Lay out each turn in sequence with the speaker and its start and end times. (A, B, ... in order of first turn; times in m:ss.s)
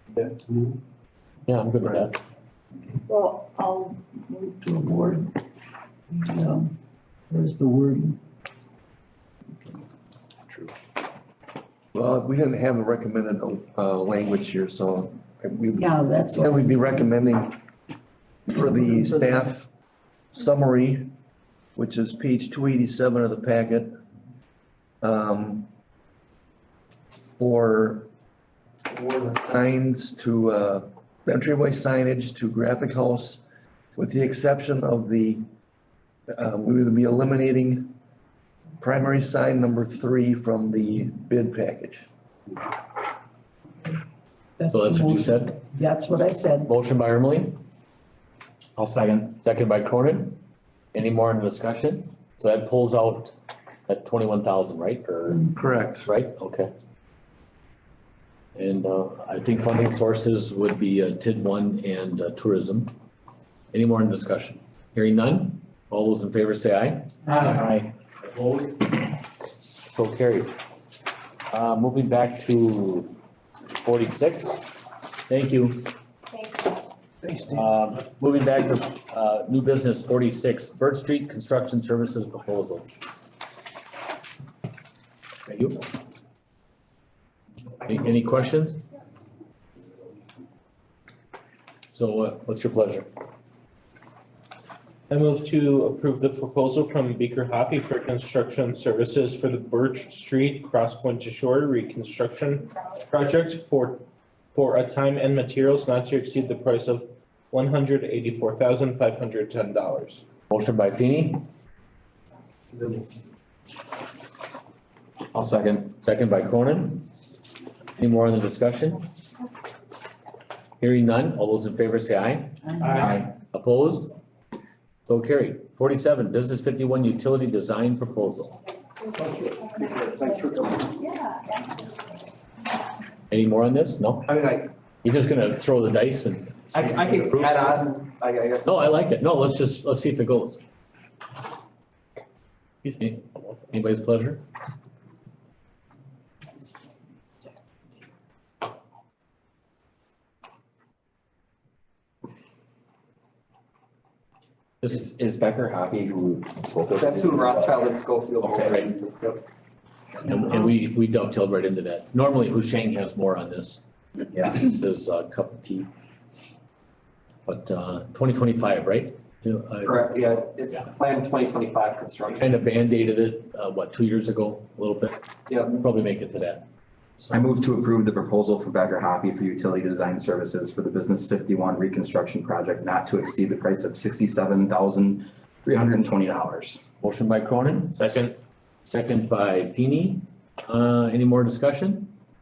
0:01.5-0:02.2 A
0:03.1-0:05.3 B
0:06.1-0:06.7 B
0:07.3-0:08.2 B
0:11.9-0:17.6 C
0:15.8-0:16.9 B
0:18.5-0:19.7 C
0:18.8-0:19.4 B
0:20.3-0:21.1 C
0:21.8-0:24.0 C
0:25.0-0:25.7 C
0:27.4-0:28.1 C
0:28.9-0:33.4 C
0:34.0-0:35.5 C
0:36.3-0:37.9 C
0:38.8-0:42.1 C
0:44.6-0:46.7 B
0:44.7-0:45.6 A
0:46.7-0:47.6 A
0:48.8-0:49.4 D
0:49.4-0:50.4 A
0:50.9-0:53.3 A
0:53.9-0:55.4 A
0:55.5-0:56.1 C
0:56.0-0:56.7 A
0:58.6-1:02.9 A
1:03.7-1:07.6 A
1:07.4-1:07.8 D
1:08.4-1:08.8 A
1:09.6-1:10.5 A
1:11.5-1:13.1 A
1:13.8-1:15.9 A
1:17.5-1:22.9 A
1:25.5-1:25.9 A
1:27.8-1:28.8 A
1:31.9-1:33.1 A
1:35.1-1:50.2 E
1:50.5-1:51.4 A
1:55.3-1:55.9 D
1:55.9-1:57.0 A
1:58.0-1:59.0 A
2:00.8-2:04.1 A
2:02.9-2:03.3 D
2:05.1-2:08.6 A
2:13.3-2:14.3 A
2:14.2-2:14.7 F
2:15.0-2:17.7 A
2:16.7-2:18.8 F
2:18.6-2:20.6 A
2:23.0-2:24.4 A
2:34.8-2:37.8 D
2:37.0-2:39.4 F
2:38.4-2:38.8 D
2:40.2-2:43.8 A
2:44.4-2:45.9 A
2:47.5-2:50.8 A
2:49.8-2:52.5 F
2:52.4-2:56.6 A
2:55.5-2:55.8 F
2:57.3-3:06.8 D
3:07.0-3:08.3 A
3:08.0-3:08.4 E
3:08.9-3:12.1 A